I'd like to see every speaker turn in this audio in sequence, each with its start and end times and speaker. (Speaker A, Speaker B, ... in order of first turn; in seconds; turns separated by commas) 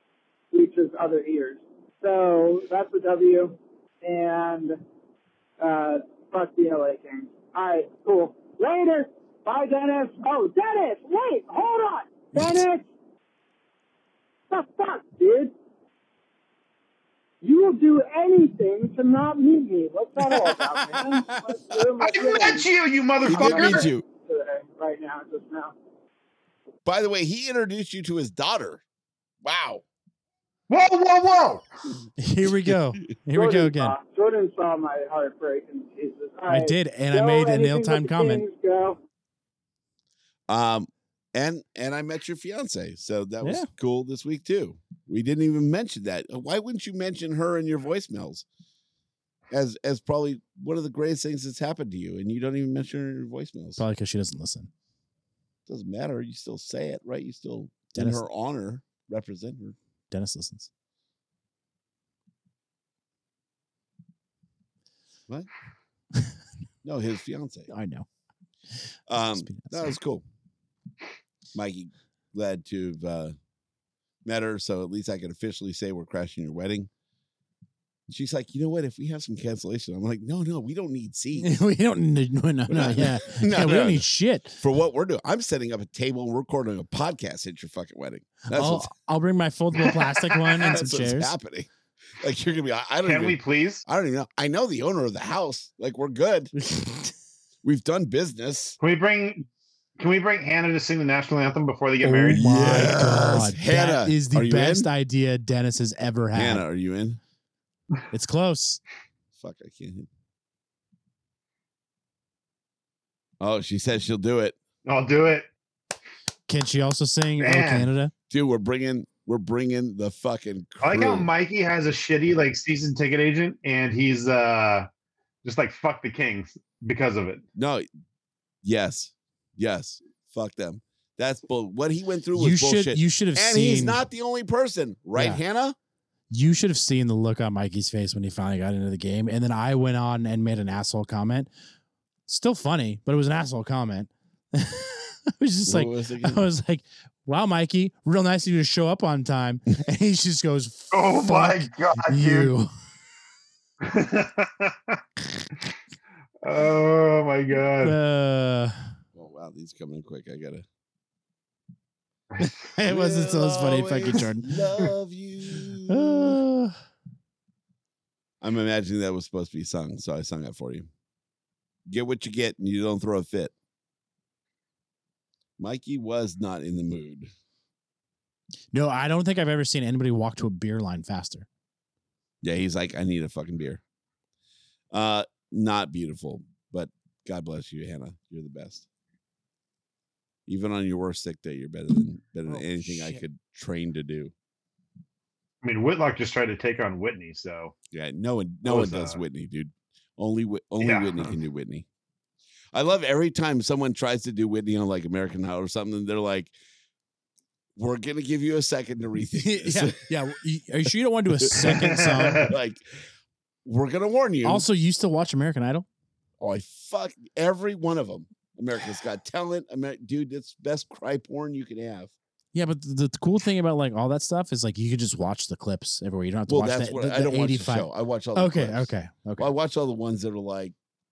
Speaker A: 0.5-4.8, Speaker A: 5.6-12.9, Speaker B: 12.3-12.6, Speaker A: 14.5-15.5, Speaker A: 17.4-22.7, Speaker B: 20.9-21.4, Speaker C: 22.0-23.9, Speaker A: 23.2-25.7, Speaker D: 23.2-24.0, Speaker D: 26.9-28.8, Speaker D: 29.4-29.8, Speaker C: 30.7-31.6, Speaker B: 32.2-33.9, Speaker A: 33.3-39.0, Speaker B: 36.5-38.4, Speaker D: 40.5-48.5, Speaker B: 43.4-43.7, Speaker D: 49.5-53.8, Speaker B: 53.8-54.7, Speaker D: 55.6-59.8, Speaker B: 57.9-58.2, Speaker B: 60.1-60.7, Speaker D: 66.8-67.7, Speaker B: 67.7-68.1, Speaker D: 69.1-70.2, Speaker B: 69.1-69.9, Speaker D: 71.5-73.4, Speaker D: 74.2-76.9, Speaker D: 78.1-81.6, Speaker B: 81.4-84.6, Speaker D: 82.7-88.9, Speaker B: 88.5-91.4, Speaker D: 90.6-96.5, Speaker C: 93.0-93.8, Speaker B: 96.5-97.1, Speaker D: 97.6-98.8, Speaker C: 98.8-99.5, Speaker C: 100.0-102.7, Speaker B: 102.0-106.6, Speaker D: 102.3-104.9, Speaker D: 106.3-107.2, Speaker B: 108.1-108.8, Speaker D: 109.3-110.1, Speaker D: 113.4-114.6, Speaker C: 114.9-115.5, Speaker B: 116.5-118.1, Speaker C: 117.4-117.9, Speaker D: 118.3-121.3, Speaker C: 120.8-124.9, Speaker C: 125.4-127.4, Speaker D: 127.5-127.9, Speaker D: 128.6-135.8, Speaker B: 132.3-134.0, Speaker B: 135.1-135.4, Speaker B: 136.3-141.5, Speaker B: 142.3-152.7, Speaker D: 145.7-146.4, Speaker C: 150.9-152.5, Speaker C: 153.8-155.0, Speaker C: 156.4-158.0, Speaker B: 157.8-158.9, Speaker D: 159.1-160.6, Speaker B: 162.4-164.5, Speaker D: 162.8-166.4, Speaker B: 165.9-166.8, Speaker D: 168.4-170.9, Speaker D: 171.9-173.5, Speaker D: 175.6-177.3, Speaker B: 178.7-181.5, Speaker D: 182.4-183.8, Speaker D: 184.9-188.9, Speaker D: 190.5-194.3, Speaker B: 192.5-193.2, Speaker C: 195.6-197.7, Speaker D: 197.9-201.9, Speaker C: 198.6-199.2, Speaker C: 200.8-201.3, Speaker D: 202.7-206.5, Speaker D: 207.8-210.1, Speaker B: 209.4-212.5, Speaker D: 211.4-213.0, Speaker D: 213.6-214.7, Speaker B: 214.4-215.9, Speaker D: 216.4-222.1, Speaker B: 222.5-229.5, Speaker D: 226.5-230.7